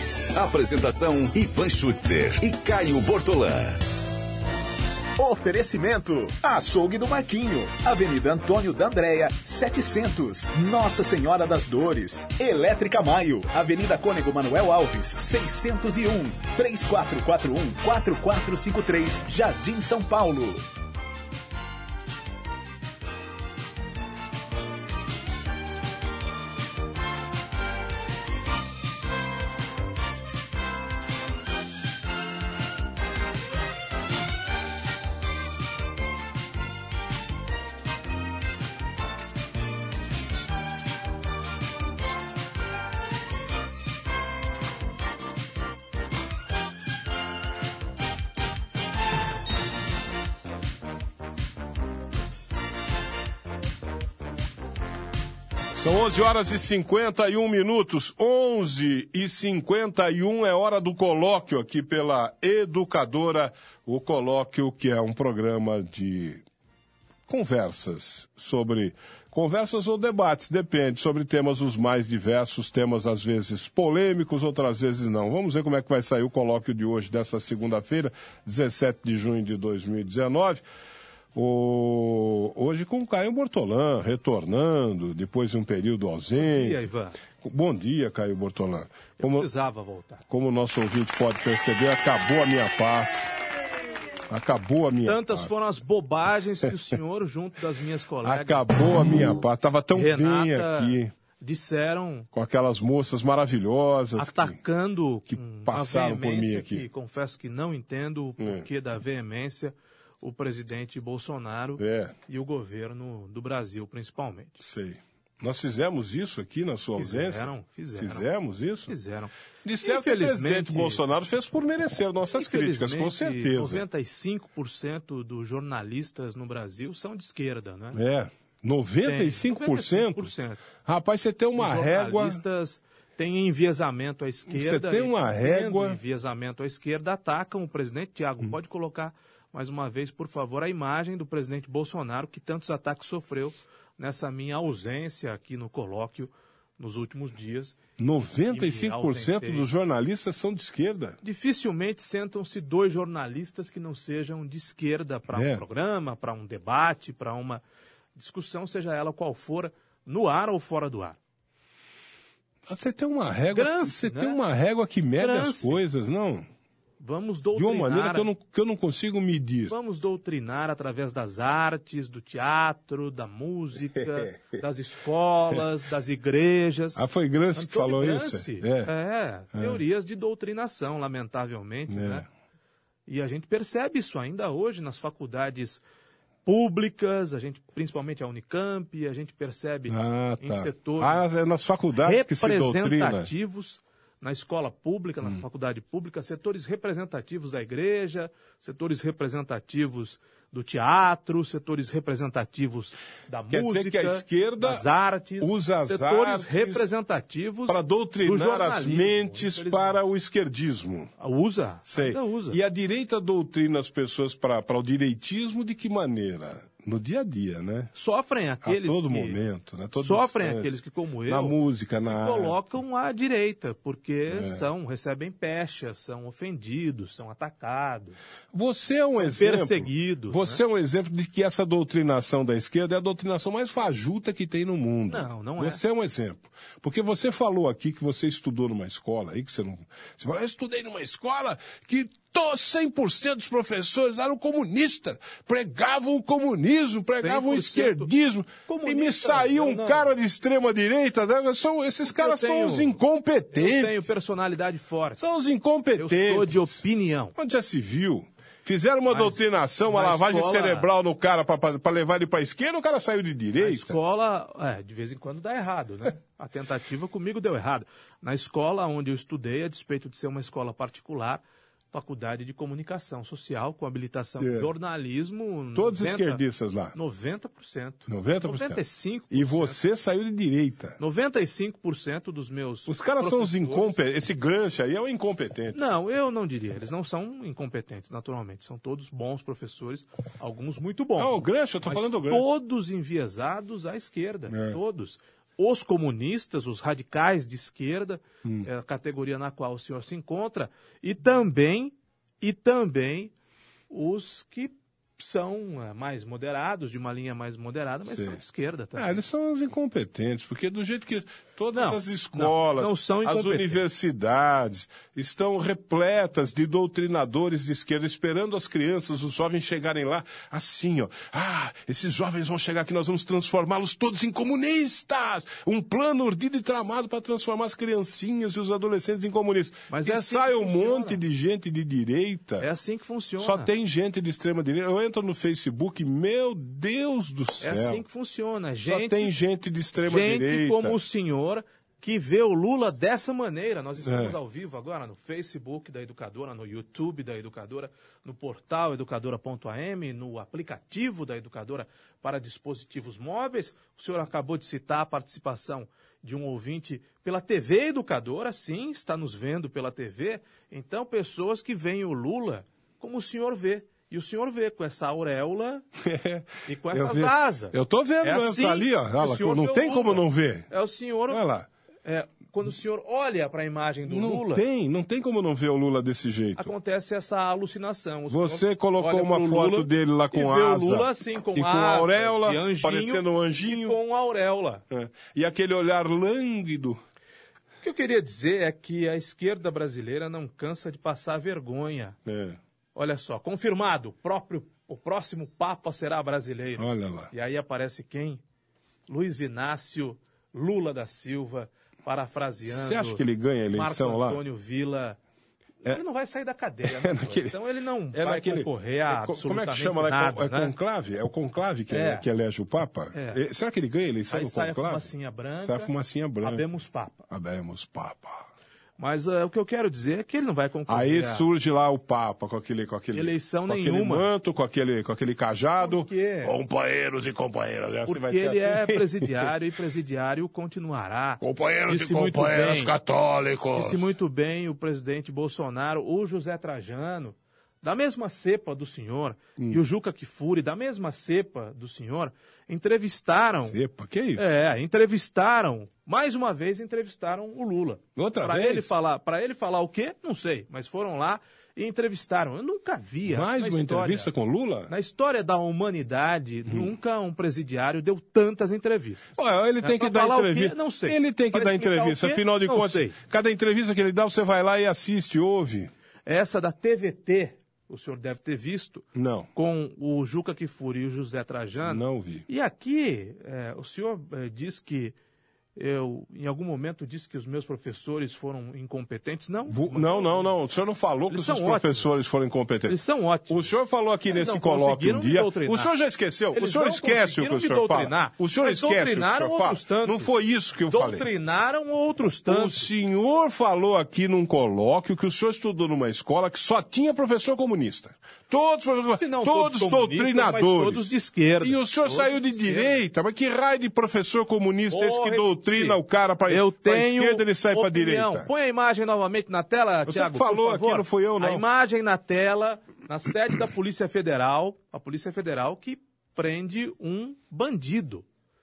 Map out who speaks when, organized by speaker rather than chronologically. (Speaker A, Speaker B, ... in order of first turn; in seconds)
Speaker A: 0.3-3.8
Speaker B: 5.2-20.6
Speaker C: 55.7-66.4, 67.3-80.6, 81.3-86.8, 87.3-89.5, 90.3-93.3, 94.3-95.7, 98.2-101.1, 102.3-104.6, 105.3-106.8, 108.4-108.6, 111.8-112.1, 114.6-118.9, 119.6-123.8, 127.9-130.3, 130.8-132.4, 134.5-136.0, 148.0-151.2, 155.3-155.6, 162.7-166.4, 167.5-169.7, 176.9-178.9, 179.5-179.8, 181.9-182.2, 189.9-193.3, 203.5-204.9, 205.4-206.9, 207.7-211.1, 211.8-217.9, 218.6-220.7, 221.3-222.6, 224.3-224.7, 228.5-254.1, 255.2-264.0, 274.4-274.7, 275.7-276.9, 278.1-278.8, 279.3-281.0, 282.9-285.8, 291.2-292.4, 294.5-294.8, 308.1-308.4, 308.9-332.7, 333.4-338.0, 338.8-341.0, 344.0-344.4, 366.0-370.7, 371.3-371.7, 374.1-376.7, 378.3-384.0, 384.9-387.0, 392.2-392.6, 396.8-397.3, 402.6-404.4, 406.8-407.6, 408.1-415.1, 415.6-416.6, 417.3-418.4, 420.9-429.5, 431.4-434.1, 443.6-444.5, 448.1-448.9, 453.3-454.9, 456.7-456.9, 459.4-465.9, 469.1-469.5, 471.9-472.4, 479.7-483.0, 483.5-491.3, 492.5-501.1, 501.6-508.5, 510.1-511.6
Speaker D: 86.4-87.2, 89.2-90.2, 95.0-99.2, 99.9-102.3, 104.2-114.6, 117.0-118.2, 118.9-121.0, 122.3-128.0, 129.0-130.6, 131.6-147.8, 148.5-149.7, 151.2-157.6, 158.1-161.2, 163.5-164.4, 165.2-165.8, 167.0-168.3, 169.7-177.0, 177.5-182.2, 183.1-185.8, 186.4-191.2, 192.0-210.0, 211.2-212.6, 217.9-219.4, 220.0-228.2, 229.1-230.6, 235.1-235.8, 247.2-248.1, 248.7-250.1, 252.1-252.9, 253.5-255.2, 256.0-257.3, 259.1-260.9, 263.6-276.4, 276.9-279.8, 281.0-284.0, 285.7-303.3, 303.9-309.2, 311.7-313.8, 329.9-331.2, 332.6-333.7, 337.6-339.3, 340.0-365.9, 366.6-371.4, 372.0-374.6, 376.6-384.8, 387.8-392.1, 392.9-398.4, 399.1-405.2, 405.8-410.7, 411.9-412.2, 413.1-413.4, 414.3-415.9, 416.4-417.3, 419.0-421.4, 423.1-424.3, 425.8-426.6, 428.1-432.9, 433.7-443.8, 444.4-454.3, 454.9-463.2, 466.2-475.1, 475.8-480.5, 481.3-482.1, 482.9-483.7, 484.3-485.9, 486.5-490.3, 490.9-492.9, 499.1-503.0, 504.9-518.2